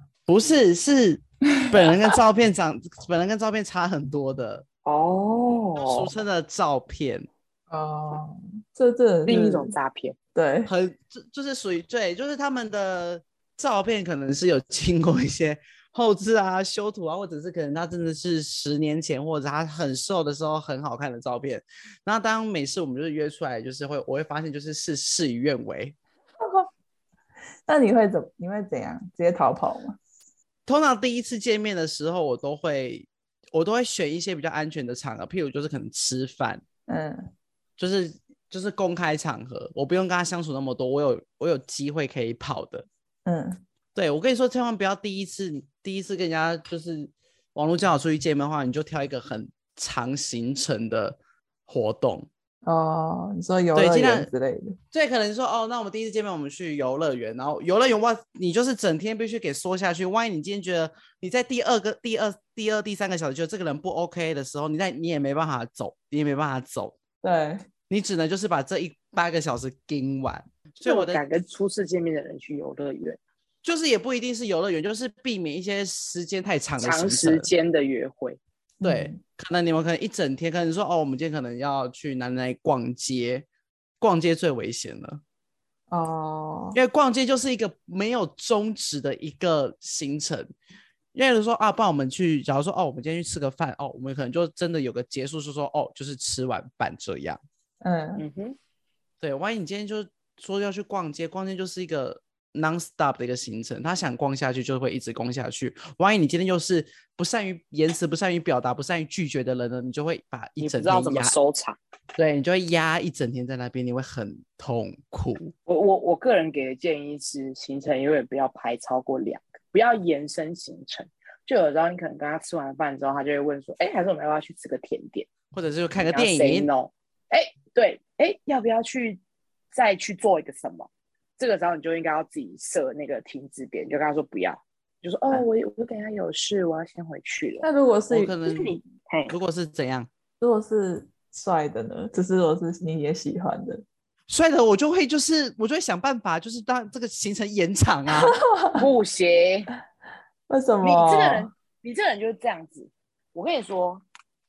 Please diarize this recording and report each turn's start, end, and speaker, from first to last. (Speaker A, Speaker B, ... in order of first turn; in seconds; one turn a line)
Speaker A: 0.3-4.6
Speaker B: 1.6-1.9
Speaker C: 4.8-6.1
Speaker A: 5.8-7.3
Speaker B: 7.7-9.7
Speaker C: 9.2-10.2
Speaker B: 10.3-10.7
Speaker A: 10.7-25.9
Speaker B: 26.4-26.7
Speaker B: 27.7-30.0
Speaker A: 30.6-36.6
Speaker B: 36.9-37.3
Speaker A: 37.8-42.9
Speaker B: 43.2-43.6
Speaker A: 43.9-52.3
Speaker B: 52.6-54.8
Speaker A: 53.7-54.3
Speaker A: 54.9-67.0
Speaker B: 67.2-67.6
Speaker A: 67.9-71.2
Speaker C: 70.8-73.2
Speaker A: 73.6-77.5
Speaker C: 76.8-78.4
Speaker B: 78.8-79.2
Speaker A: 78.8-83.5
Speaker A: 84.0-85.2
Speaker B: 85.9-86.8
Speaker A: 86.7-90.5
Speaker A: 91.1-97.4
Speaker B: 97.8-98.2
Speaker C: 98.2-98.5
Speaker A: 99.2-111.3
Speaker C: 110.6-111.8
Speaker A: 112.2-115.5
Speaker C: 115.7-125.3
Speaker A: 125.5-126.7
Speaker C: 126.0-129.2
Speaker C: 129.7-137.7
Speaker B: 137.6-138.4
Speaker A: 138.1-138.8
Speaker C: 138.4-139.3
Speaker A: 139.3-140.1
Speaker B: 140.4-143.8
Speaker A: 144.3-148.3
Speaker B: 148.1-148.9
Speaker C: 148.8-149.7
Speaker B: 150.5-151.5
Speaker C: 150.8-154.0